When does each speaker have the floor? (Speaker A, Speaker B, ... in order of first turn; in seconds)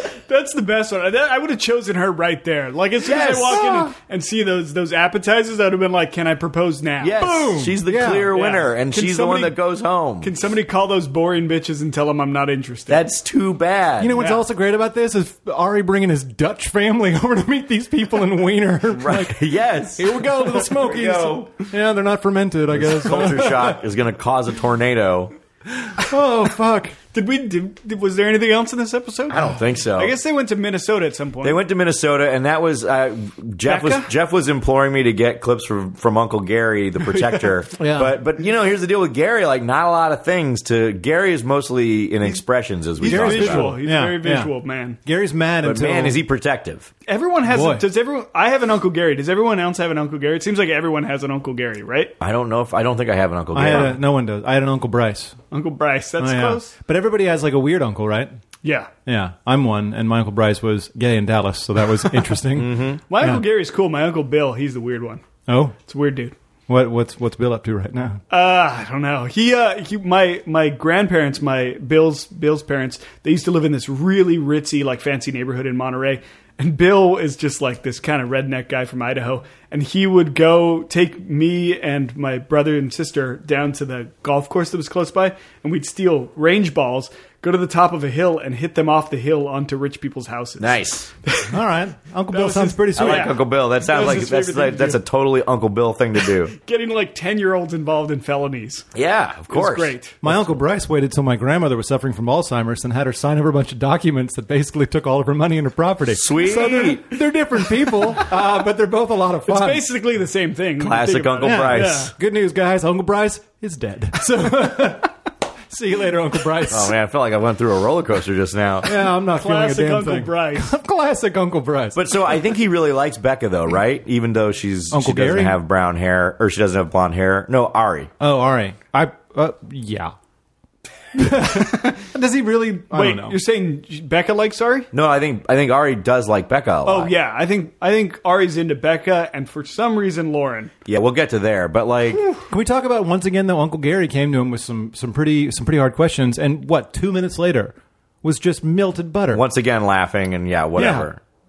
Speaker A: 0.3-7.2, 8.3-9.5, 10.2-13.0, 14.2-14.4, 27.1-31.6, 33.6-34.1, 43.0-45.0, 47.0-52.1, 55.5-56.7, 58.6-58.9, 63.1-65.2, 65.8-66.3, 68.3-91.5, 92.3-95.0, 96.5-98.9, 99.5-100.2, 109.5-112.1, 119.3-120.7, 131.5-132.0, 132.9-134.9, 136.8-140.7
Speaker B: 3.0-3.6, 7.0-10.3, 12.9-14.2, 18.9-21.5, 22.7-25.3, 29.3-30.1, 31.4-43.8, 45.6-46.9, 52.2-54.0, 62.5-63.0, 90.6-91.1, 93.0-96.5, 98.9-100.5, 106.1-107.0, 110.8-112.1, 116.7-118.9, 121.9-128.1, 134.9-137.1, 140.8-142.2, 149.3-151.2
Speaker C: 3.5-3.9, 7.2-8.3, 14.0-19.4, 19.9-23.8, 25.8-26.9, 37.8-38.2, 43.0-44.5, 45.0-46.2, 47.5-47.8, 53.5-55.4, 56.2-58.4, 59.0-63.4, 65.5-65.7, 66.7-68.2, 91.5-93.3, 100.2-109.8, 111.4-115.1, 115.7-116.9, 118.8-122.0, 124.9-125.6, 128.2-130.1, 131.2-133.4, 142.5-149.4, 150.8-151.1